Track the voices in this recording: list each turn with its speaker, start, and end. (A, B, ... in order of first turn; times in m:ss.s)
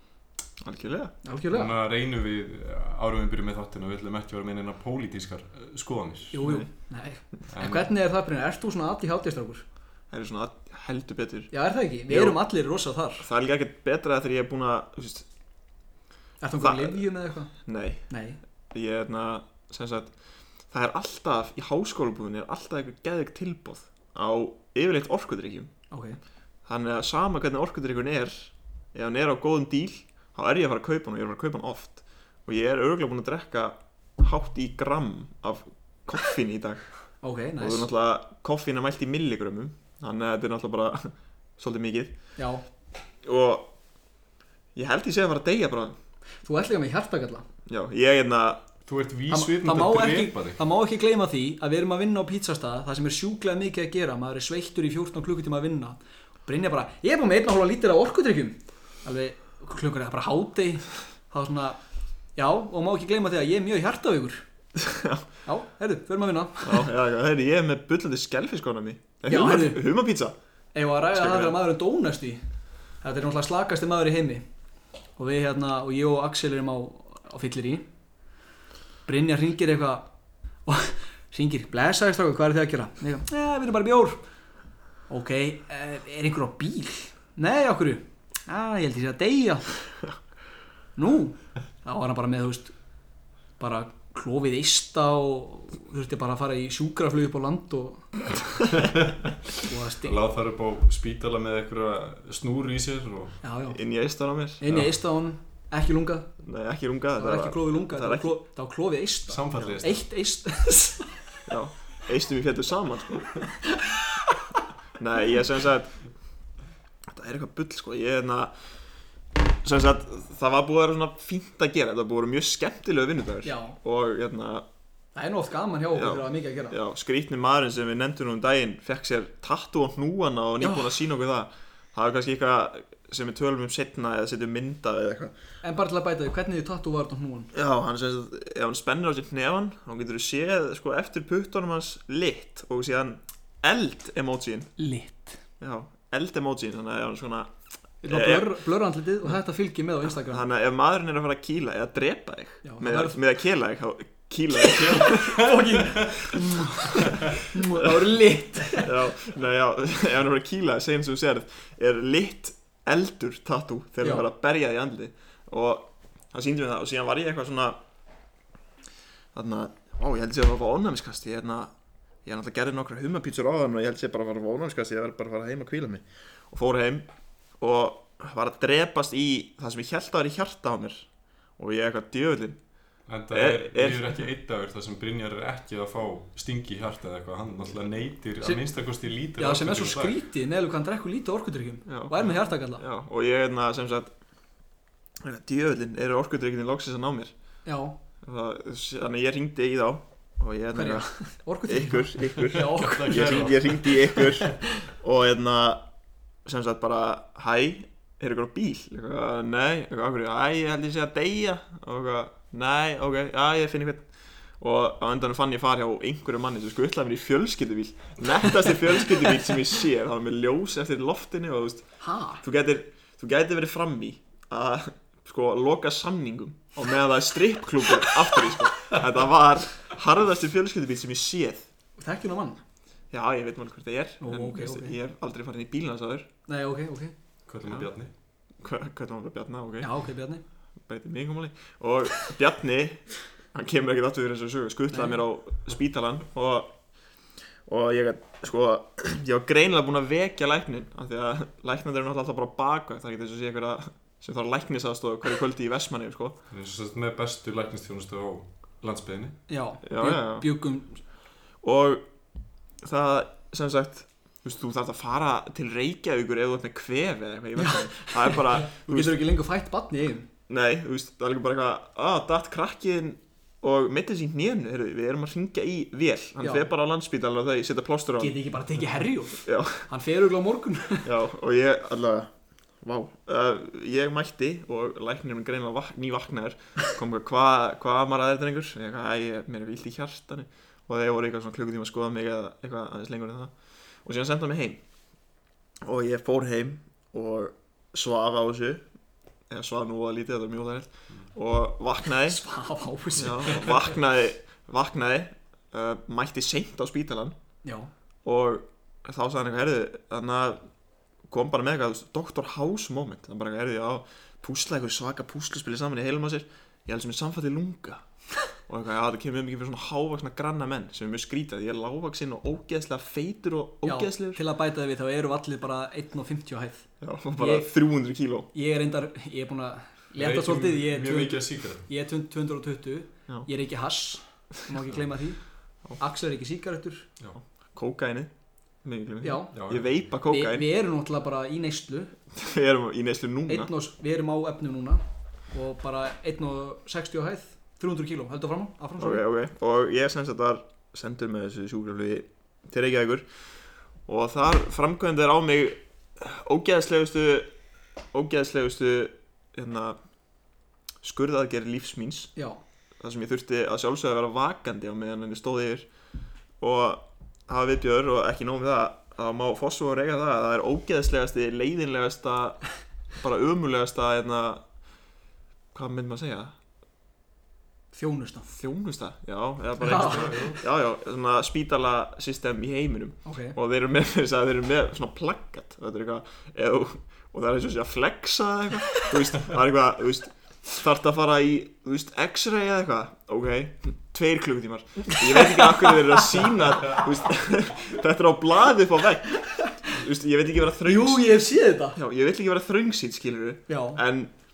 0:00.6-0:01.1 A
0:01.2-0:01.7 B
0:01.5-0:06.4 C
0:06.3-0:09.6 B
0:06.4-0:06.7 A
0:07.5-0:07.9 C
0:10.1-0:11.5 A
0:11.5-0:13.3 B
0:12.1-0:12.4 A
0:13.2-0:15.3 A
0:16.4-0:17.5 B
0:16.6-0:18.0 A
0:18.1-0:18.4 B
0:18.7-0:20.1 A
0:20.7-0:25.7 A
0:25.9-0:26.2 B
0:26.7-0:36.9 A
0:37.2-0:37.9 B
0:37.6-0:42.2 A
0:42.4-0:42.6 B
0:43.2-0:43.7 A
0:44.8-0:46.0 A
0:46.4-0:47.5 B
0:47.7-0:48.6 A
0:48.9-0:50.6 C
0:49.3-1:01.8 B
1:02.4-1:04.4 B
1:04.8-1:05.3 A
1:05.4-1:06.9 B
1:06.6-1:10.4 A
1:09.3-1:09.9 B
1:10.8-1:12.4 B
1:11.1-1:11.6 A
1:13.0-1:14.4 B
1:15.2-1:17.9 B
1:19.1-1:20.1 B
1:20.7-1:24.2 B
1:25.1-1:29.7 B
1:31.0-1:32.7 B
1:33.6-1:38.7 B
1:38.8-1:39.2 C
1:39.6-1:40.2 B
1:40.0-1:43.4 C
1:43.4-1:43.8 B
1:43.7-1:44.6 A
1:44.6-1:46.3 B
1:46.4-1:48.3 A
1:47.2-1:51.2 B
1:49.3-1:50.0 C
1:51.5-1:53.3 A
1:53.7-1:54.4 B
1:55.0-1:56.0 A
1:57.1-1:58.5 A
1:59.6-2:04.7 A
2:03.4-2:03.8 B
2:05.2-2:06.8 B
2:05.9-2:15.3 A
2:10.6-2:10.9 B
2:15.6-2:17.5 B
2:17.5-2:24.7 A
2:24.8-2:25.4 B
2:25.6-2:27.5 A
2:28.0-2:30.4 B
2:28.1-2:28.6 A
2:30.2-2:35.4 A
2:32.6-2:33.2 B
2:34.7-2:39.0 B
2:37.7-2:38.0 A
2:38.8-2:47.8 A
2:44.0-2:44.3 B
2:49.3-2:51.7 A
2:52.2-2:57.1 A
2:57.6-3:02.6 A
3:03.1-3:10.2 C
3:03.3-3:04.2 A
3:09.4-3:12.8 B
3:11.9-3:14.1 A
3:15.2-3:17.3 A
3:17.7-3:18.0 B
3:18.2-3:21.1 A
3:20.7-3:24.2 B
3:21.7-3:25.9 A
3:22.6-3:24.1 C
3:26.4-3:34.1 A
3:34.6-3:51.7 A
3:42.0-3:42.4 B
3:52.0-3:52.6 B
3:53.1-3:56.3 A
3:54.2-3:55.0 B
3:56.5-3:57.1 B
3:57.5-3:58.1 C
3:58.6-3:59.9 A
3:59.8-4:00.4 B
4:00.8-4:06.8 A
4:04.9-4:05.2 B
4:07.7-4:16.4 A
4:16.5-4:19.4 C
4:19.5-4:21.0 B
4:19.8-4:20.5 A
4:21.6-4:22.1 A
4:22.8-4:29.2 A
4:27.6-4:30.3 B
4:30.5-4:38.4 A
4:36.4-4:36.7 B
4:38.2-4:41.1 B
4:39.4-4:39.9 A
4:41.0-4:53.5 A
4:54.0-4:54.8 A
4:55.8-4:58.8 A
4:59.5-5:02.4 A
5:02.3-5:03.9 B
5:03.1-5:07.4 A
5:07.6-5:07.9 B
5:08.2-5:10.6 A
5:11.3-5:18.0 A
5:18.7-5:24.4 A
5:23.8-5:27.7 B
5:27.0-5:28.5 A
5:28.5-5:35.4 B
5:30.2-5:31.9 C
5:36.0-5:37.1 B
5:37.4-5:38.3 A
5:38.8-5:40.7 A
5:39.2-5:39.6 B
5:39.5-5:40.0 C
5:40.2-5:42.2 B
5:42.3-5:43.7 A
5:43.5-5:49.2 B
5:49.0-5:53.3 A
5:54.1-5:57.5 A
5:58.1-6:00.0 A
6:01.0-6:02.3 A
6:03.0-6:05.9 A
6:06.6-6:12.6 A
6:13.2-6:14.6 A
6:15.7-6:16.5 A
6:17.9-6:18.5 B
6:18.5-6:41.4 A
6:19.8-6:20.6 B
6:19.8-6:20.6 C
6:23.2-6:23.6 B
6:35.1-6:36.2 B
6:39.3-6:39.8 B
6:40.8-6:42.0 B
6:41.9-6:44.3 A
6:43.7-6:44.0 B